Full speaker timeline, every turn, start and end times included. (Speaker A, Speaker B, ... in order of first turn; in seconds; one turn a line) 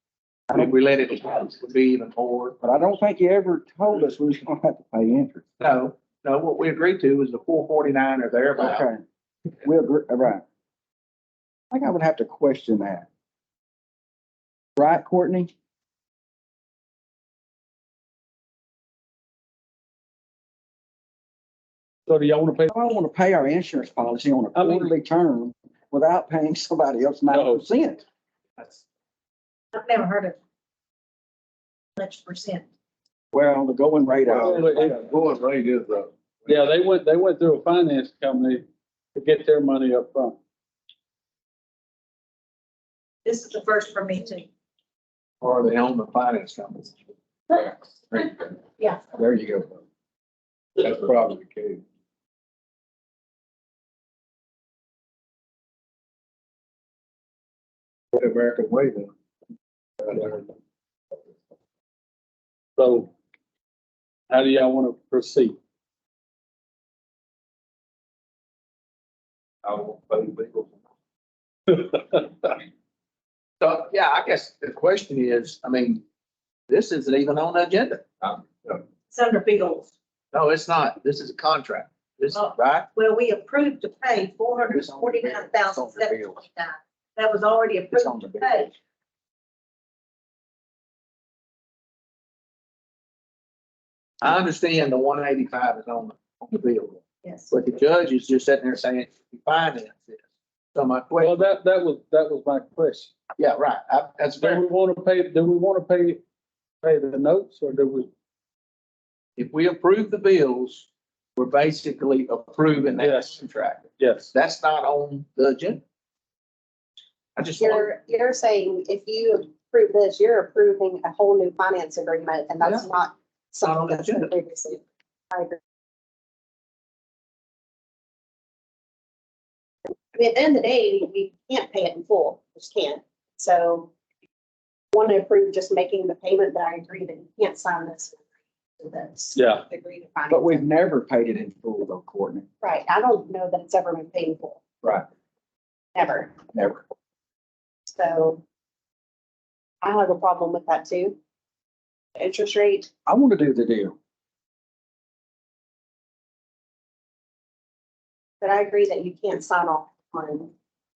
Speaker A: 0.5-2.6
Speaker B: 2.6-5.4
Speaker A: 5.6-8.9
Speaker B: 8.6-9.0
Speaker B: 9.6-10.4
Speaker B: 11.7-13.1
Speaker B: 14.8-15.5
Speaker C: 22.1-22.7
Speaker B: 22.7-28.1
Speaker C: 24.6-24.9
Speaker C: 27.3-27.6
Speaker D: 29.7-30.4
Speaker D: 32.0-32.7
Speaker B: 33.3-34.7
Speaker E: 34.3-36.6
Speaker C: 34.4-35.1
Speaker C: 36.5-40.4
Speaker D: 43.2-44.5
Speaker A: 45.4-47.0
Speaker B: 49.3-49.7
Speaker E: 50.8-51.8
Speaker E: 58.1-59.1
Speaker E: 60.0-60.5
Speaker C: 62.8-63.1
Speaker C: 64.3-65.6
Speaker E: 69.7-70.7
Speaker A: 73.6-76.0
Speaker A: 76.7-78.4
Speaker D: 79.1-79.9
Speaker A: 80.3-82.9
Speaker D: 82.3-88.7
Speaker B: 84.7-86.4
Speaker B: 87.9-88.7
Speaker A: 94.2-101.4
Speaker D: 97.2-97.5
Speaker C: 101.2-103.1
Speaker A: 103.4-104.6
Speaker C: 104.4-106.2
Speaker C: 106.8-108.1
Speaker A: 109.4-115.8
Speaker C: 113.0-113.4
Speaker C: 114.0-114.3
Speaker A: 117.4-117.9
Speaker F: 117.6-125.6
Speaker A: 123.6-124.3
Speaker F: 129.9-133.9
Speaker F: 134.9-138.2
Speaker F: 138.8-140.6
Speaker C: 139.3-139.7
Speaker B: 140.3-142.5
Speaker F: 142.6-144.6
Speaker F: 146.0-146.4
Speaker F: 147.9-148.4
Speaker F: 149.8-151.2
Speaker F: 152.2-152.9
Speaker B: 153.1-153.9
Speaker F: 158.4-160.5